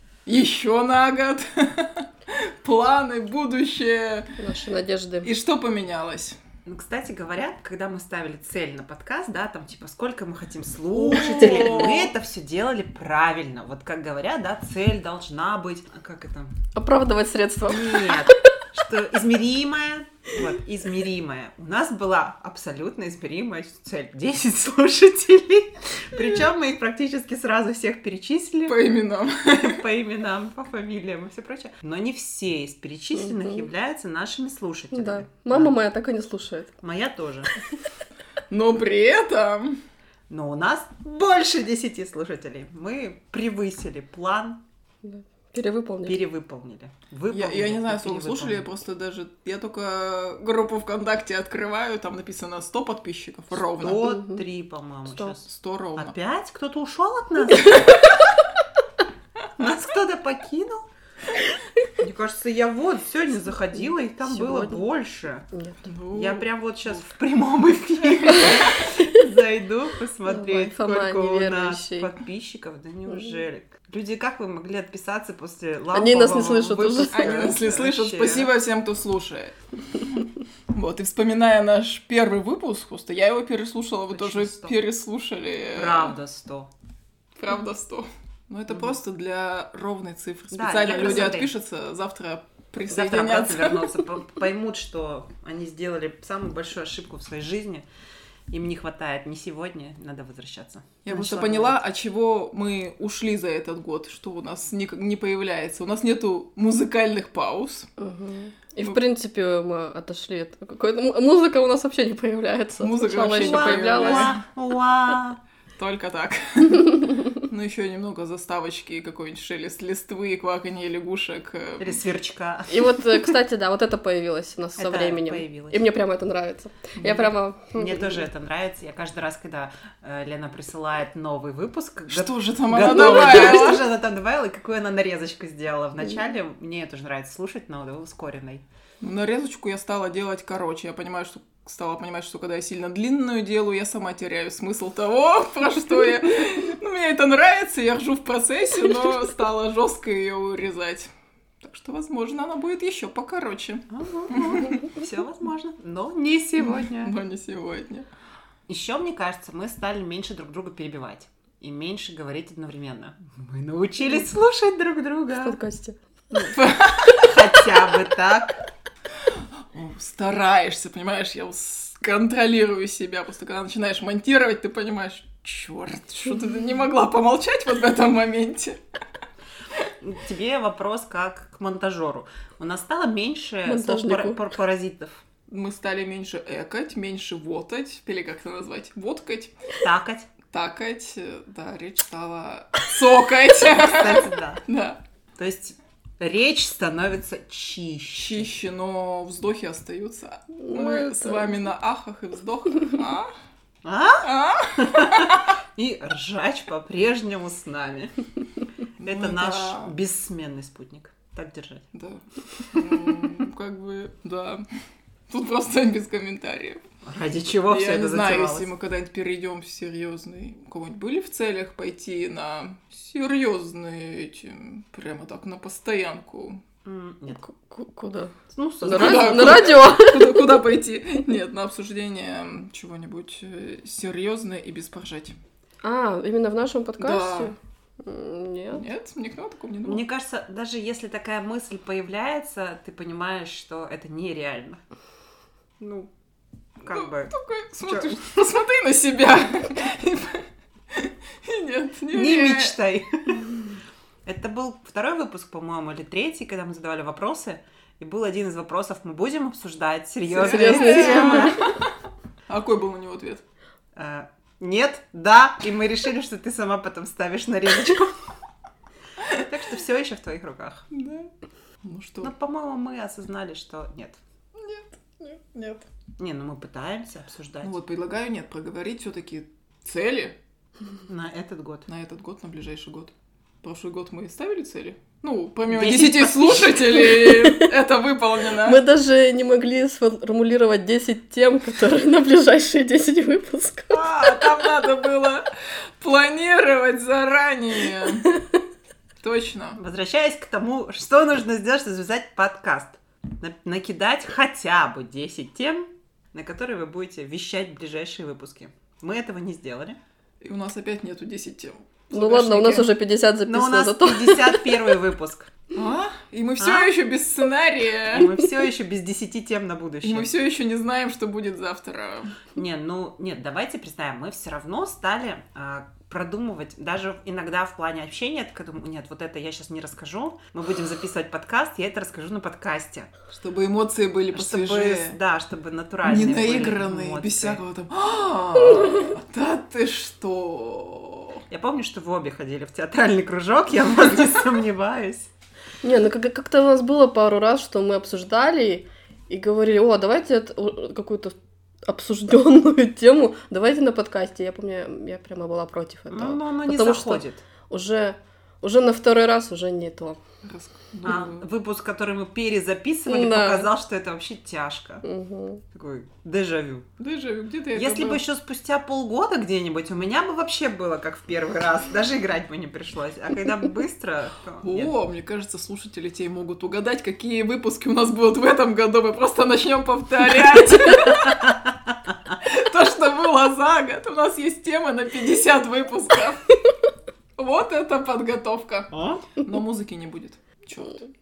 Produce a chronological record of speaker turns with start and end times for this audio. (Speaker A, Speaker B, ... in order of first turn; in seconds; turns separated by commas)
Speaker A: 0.2-4.3, Speaker B: 4.4-5.3, Speaker A: 5.2-6.4, Speaker C: 6.7-16.5, Speaker A: 10.9-12.1, Speaker B: 11.3-11.8, Speaker B: 16.7-18.3, Speaker C: 17.7-28.9, Speaker A: 28.7-29.8, Speaker C: 29.4-35.7, Speaker B: 33.2-33.7, Speaker B: 34.9-36.7, Speaker C: 36.8-37.5, Speaker A: 38.5-39.8, Speaker C: 40.3-44.6, Speaker B: 45.0-46.2, Speaker C: 46.0-48.7, Speaker A: 47.3-54.1, Speaker C: 53.5-58.1, Speaker B: 53.9-54.4, Speaker A: 55.4-56.1, Speaker C: 59.6-60.9, Speaker C: 62.0-65.5, Speaker B: 64.2-64.8, Speaker B: 65.5-65.8, Speaker A: 65.8-66.5, Speaker C: 66.1-78.5, Speaker B: 70.2-72.1, Speaker B: 75.9-77.5, Speaker A: 77.1-80.0, Speaker A: 80.7-86.1, Speaker C: 84.1-84.8, Speaker C: 85.7-86.7, Speaker A: 87.4-93.9, Speaker C: 90.5-91.5, Speaker C: 92.9-97.9, Speaker C: 98.5-101.8, Speaker A: 101.0-107.9, Speaker B: 108.0-114.3, Speaker A: 112.8-114.4, Speaker C: 113.2-115.4, Speaker A: 115.8-122.0, Speaker C: 121.8-123.2, Speaker B: 122.7-128.3, Speaker C: 124.8-125.8, Speaker C: 127.0-138.6, Speaker A: 132.1-133.8, Speaker B: 132.8-133.7, Speaker A: 139.0-151.1, Speaker A: 151.6-154.8, Speaker C: 153.9-157.2, Speaker A: 156.6-158.1, Speaker C: 158.7-165.6, Speaker B: 165.4-165.9, Speaker A: 166.3-167.6, Speaker C: 167.1-168.6, Speaker A: 169.7-178.8, Speaker C: 180.0-185.2, Speaker B: 183.6-184.4, Speaker A: 185.5-189.5, Speaker C: 189.8-190.3, Speaker A: 190.5-195.0, Speaker C: 193.6-194.6, Speaker C: 195.3-198.5, Speaker A: 198.2-203.3, Speaker B: 200.6-201.5, Speaker C: 203.8-208.1, Speaker A: 204.2-205.5, Speaker A: 209.0-209.9, Speaker C: 209.0-211.8, Speaker A: 211.9-214.6, Speaker A: 215.3-216.8, Speaker C: 217.0-218.7, Speaker A: 217.7-226.6, Speaker C: 226.8-227.4, Speaker B: 227.3-230.5, Speaker C: 228.5-229.8, Speaker A: 228.9-235.4, Speaker B: 235.8-238.8, Speaker A: 237.0-237.5, Speaker A: 238.7-240.0, Speaker C: 239.8-244.8, Speaker C: 245.8-246.1, Speaker C: 246.8-248.2, Speaker A: 246.8-252.8, Speaker C: 252.1-253.5, Speaker C: 254.2-261.6, Speaker A: 260.3-261.8, Speaker B: 260.3-261.6, Speaker A: 262.5-263.4, Speaker C: 263.9-268.2, Speaker C: 269.3-270.9, Speaker A: 270.9-271.3, Speaker A: 271.8-272.3, Speaker C: 272.2-274.2, Speaker A: 274.5-275.9, Speaker C: 276.2-277.8, Speaker A: 277.6-280.3, Speaker C: 281.1-281.9, Speaker A: 281.9-288.8, Speaker C: 285.7-287.1, Speaker B: 287.2-287.7, Speaker B: 288.6-294.5, Speaker A: 293.9-295.5, Speaker A: 296.0-298.3, Speaker A: 299.2-299.8, Speaker C: 299.8-310.0, Speaker A: 310.4-312.9, Speaker B: 312.1-315.0, Speaker C: 313.4-315.7, Speaker A: 315.7-318.3, Speaker C: 316.6-316.9, Speaker C: 318.1-320.3, Speaker A: 320.0-322.4, Speaker C: 322.5-333.1, Speaker A: 333.3-335.2, Speaker C: 334.3-337.6, Speaker A: 336.0-341.4, Speaker C: 341.5-345.3, Speaker B: 345.8-351.4, Speaker B: 351.9-360.2, Speaker C: 356.1-357.4, Speaker A: 360.4-361.4, Speaker C: 361.0-365.0, Speaker B: 363.1-363.7, Speaker B: 365.0-365.6, Speaker C: 365.7-366.9, Speaker A: 367.0-368.2, Speaker C: 367.7-374.9, Speaker A: 374.6-381.5, Speaker A: 382.4-386.4, Speaker A: 387.4-391.1, Speaker C: 388.9-389.2